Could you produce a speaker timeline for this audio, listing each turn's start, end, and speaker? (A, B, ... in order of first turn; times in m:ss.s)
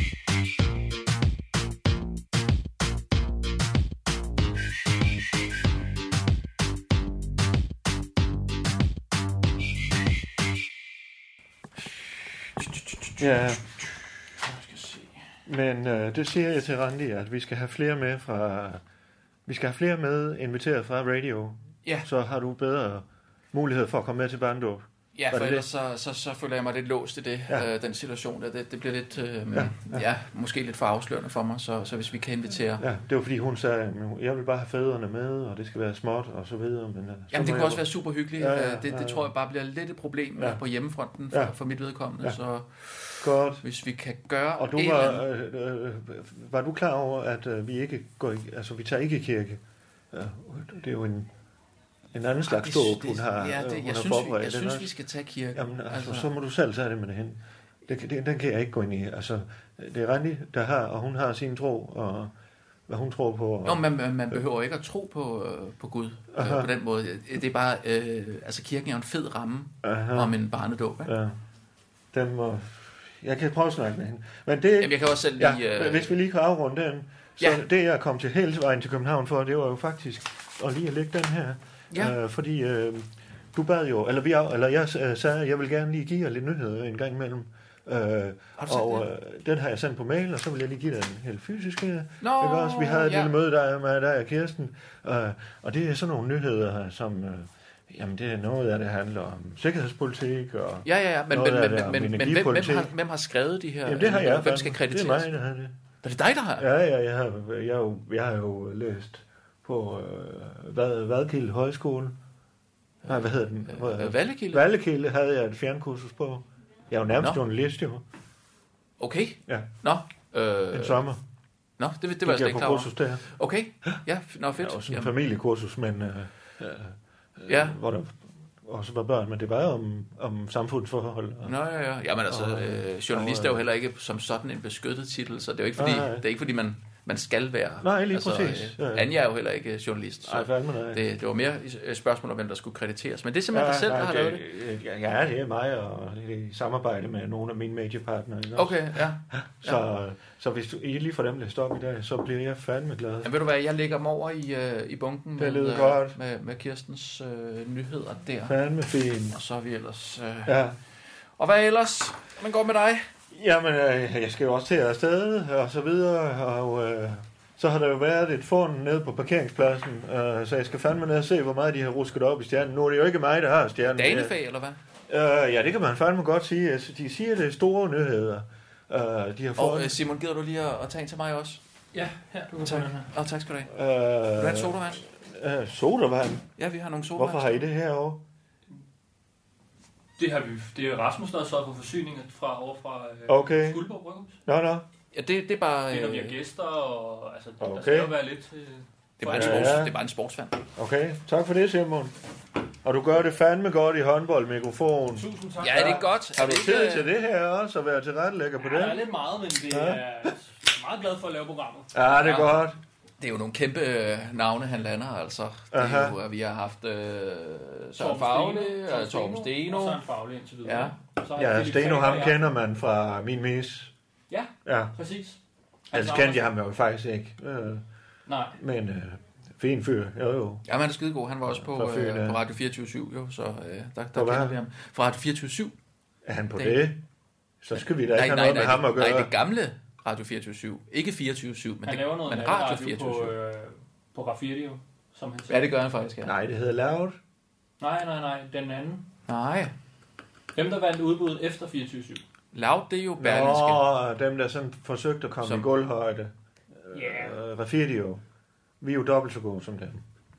0:12.9-0:13.2 A
0:13.2-0:13.6 B
0:14.4-0:15.2 A
0:15.5-0:18.8 B
0:19.5-0:25.7 B
0:25.2-0:32.8 A
0:29.5-0:30.1 B
0:32.8-0:39.3 B
0:37.3-0:45.2 A
0:40.4-0:40.6 B
0:41.3-0:41.6 B
0:43.2-0:43.6 B
0:44.6-0:51.3 B
0:52.1-0:54.9 B
0:52.5-0:56.3 A
0:55.5-1:02.3 B
1:02.9-1:04.4 B
1:03.6-1:11.1 A
1:06.3-1:06.7 B
1:09.8-1:10.4 B
1:11.0-1:11.4 B
1:12.1-1:42.9 B
1:14.8-1:16.1 A
1:28.6-1:29.1 A
1:32.2-1:33.3 A
1:40.8-1:45.3 A
1:43.8-1:45.8 B
1:46.0-1:46.7 A
1:46.6-1:52.2 B
1:53.0-1:58.0 B
1:53.7-1:54.7 A
1:59.0-2:01.0 A
2:00.7-2:01.2 B
2:01.8-2:05.1 A
2:02.2-2:03.2 B
2:04.6-2:11.6 B
2:07.5-2:07.8 A
2:11.4-2:24.4 A
2:12.3-2:13.6 B
2:15.8-2:16.2 B
2:17.8-2:19.1 B
2:20.3-2:21.0 B
2:23.5-2:33.3 B
2:28.6-2:29.8 A
2:33.2-2:38.6 A
2:35.4-2:36.2 B
2:38.5-2:39.4 B
2:39.3-2:40.6 A
2:40.5-2:40.8 B
2:41.4-2:43.1 A
2:43.3-2:54.4 B
2:53.9-2:54.8 A
2:55.1-2:59.9 B
2:59.6-3:01.6 A
3:01.9-3:03.1 C
3:02.6-3:03.7 A
3:03.7-3:06.5 B
3:04.3-3:05.0 A
3:06.6-3:07.7 A
3:07.1-3:08.3 B
3:10.2-3:14.4 C
3:13.3-3:13.9 B
3:14.4-3:14.9 B
3:15.1-3:16.4 A
3:15.9-3:19.9 C
3:17.6-3:18.1 B
3:19.2-3:20.6 A
3:19.3-3:19.9 B
3:20.8-3:22.1 B
3:22.8-3:29.1 B
3:25.1-3:26.2 C
3:25.6-3:27.1 A
3:28.6-3:31.9 C
3:29.7-3:30.4 B
3:31.9-3:32.8 B
3:32.2-3:32.6 A
3:33.2-3:40.0 A
3:35.7-3:36.2 B
3:38.0-3:42.4 C
3:40.6-3:41.0 A
3:41.4-3:43.9 B
3:44.3-3:45.4 C
3:44.6-3:45.0 B
3:45.9-3:46.4 C
3:45.9-3:47.8 B
3:48.3-3:48.6 C
3:48.6-3:50.6 B
3:50.7-3:55.8 A
3:51.5-3:52.4 B
3:54.1-3:54.6 B
3:56.2-3:57.0 B
3:56.6-3:56.9 A
3:57.6-3:59.3 B
3:57.8-4:03.3 A
4:01.8-4:05.7 C
4:05.5-4:06.3 A
4:06.2-4:07.2 B
4:07.8-4:09.0 C
4:09.3-4:09.7 A
4:10.5-4:12.2 C
4:12.5-4:13.8 A
4:13.2-4:18.2 B
4:15.4-4:15.7 A
4:16.9-4:17.4 C
4:18.8-4:20.0 B